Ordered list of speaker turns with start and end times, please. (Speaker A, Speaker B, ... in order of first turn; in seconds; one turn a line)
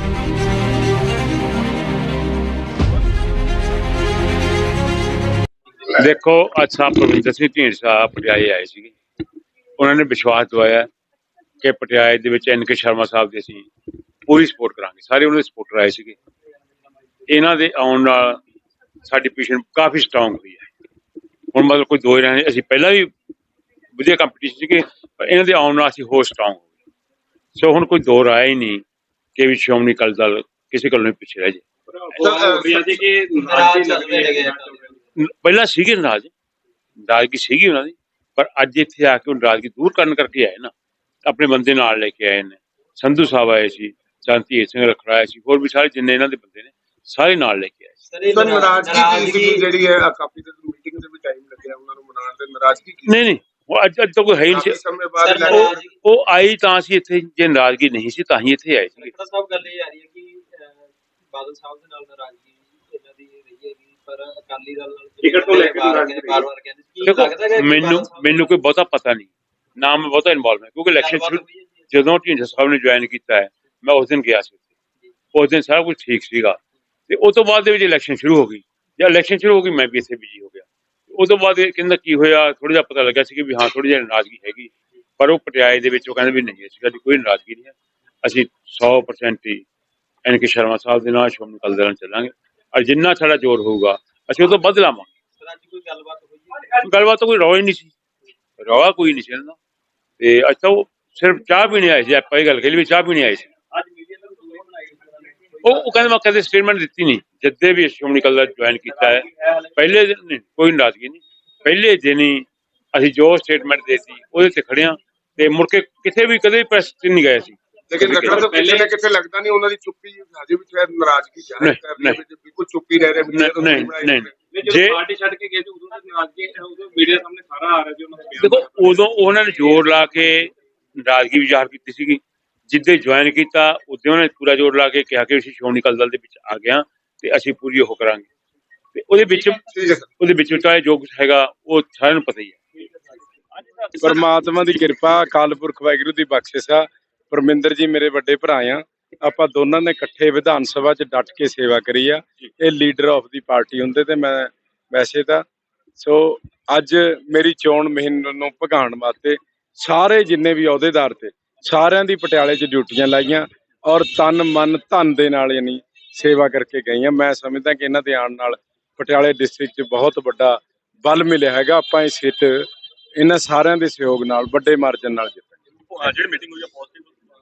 Speaker A: 5.9-8.9
Speaker A: 9.8-10.9
Speaker A: 11.6-13.7
Speaker A: 14.3-16.2
Speaker A: 17.3-18.4
Speaker A: 19.1-20.7
Speaker A: 21.5-23.1
Speaker A: 23.9-26.7
Speaker A: 27.6-28.8
Speaker A: 29.4-31.6
Speaker B: 31.9-35.0
Speaker C: 32.1-34.2
Speaker D: 33.8-34.7
Speaker A: 35.1-36.3
Speaker A: 37.0-40.7
Speaker A: 41.2-47.9
Speaker D: 48.2-49.6
Speaker C: 48.3-53.3
Speaker A: 53.0-54.8
Speaker C: 54.5-55.9
Speaker D: 55.2-55.5
Speaker A: 55.5-59.1
Speaker D: 59.1-68.0
Speaker B: 65.2-66.5
Speaker A: 67.0-74.7
Speaker D: 71.0-71.7
Speaker A: 75.3-76.6
Speaker A: 77.1-89.7
Speaker A: 90.2-95.1
Speaker D: 95.5-96.7
Speaker A: 96.7-97.9
Speaker A: 98.6-99.6
Speaker A: 100.2-103.5
Speaker B: 103.7-105.8
Speaker A: 105.6-118.5
Speaker B: 109.0-109.6
Speaker C: 117.9-124.4
Speaker B: 118.0-118.9
Speaker A: 121.6-122.2
Speaker A: 123.3-125.0
Speaker B: 124.5-129.1
Speaker A: 128.4-138.3
Speaker A: 138.9-142.6
Speaker C: 139.7-140.1
Speaker E: 144.0-155.4
Speaker E: 156.0-175.5
Speaker B: 175.9-177.2